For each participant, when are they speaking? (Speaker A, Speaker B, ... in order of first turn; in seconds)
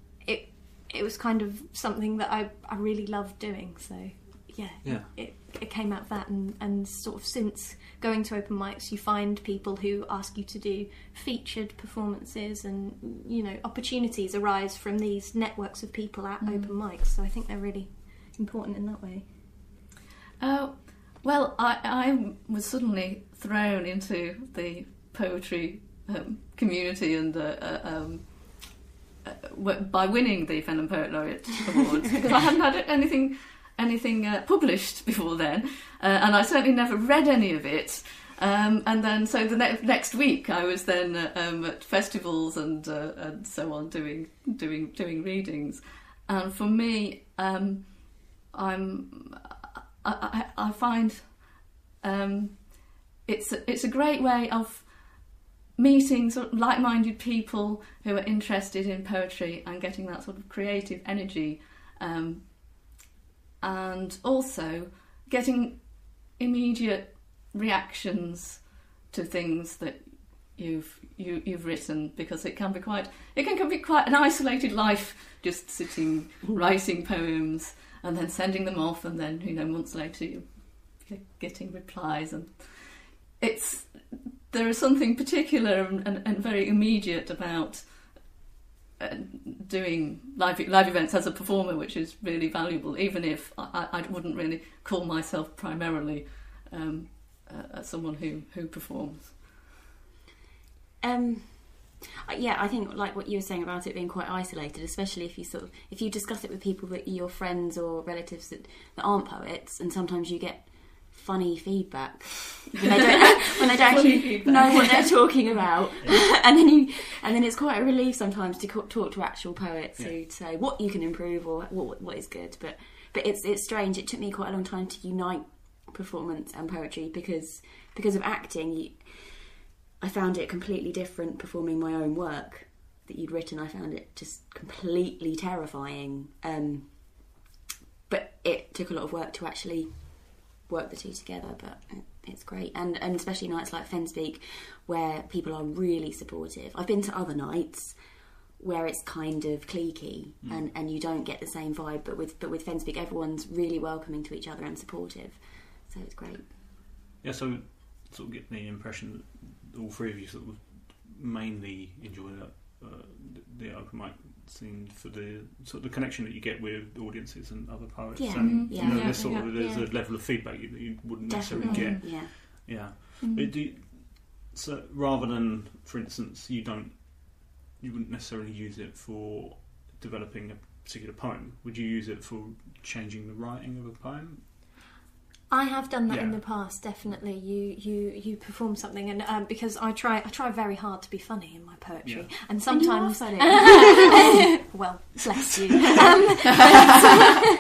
Speaker A: 0.2-19.3, 171.3-172.0, 173.2-173.5, 185.5-197.4
Speaker B: 4.8-5.2, 150.4-150.7, 157.2-184.5, 186.1-187.2, 192.0-192.4
Speaker C: 16.4-16.8, 20.4-62.9, 63.6-88.3, 89.0-99.4, 113.4-115.6, 168.4-169.5, 171.6-172.0
Speaker D: 101.0-137.4, 138.1-148.0, 148.6-156.5, 168.2-169.9, 171.3-172.3, 192.7-194.3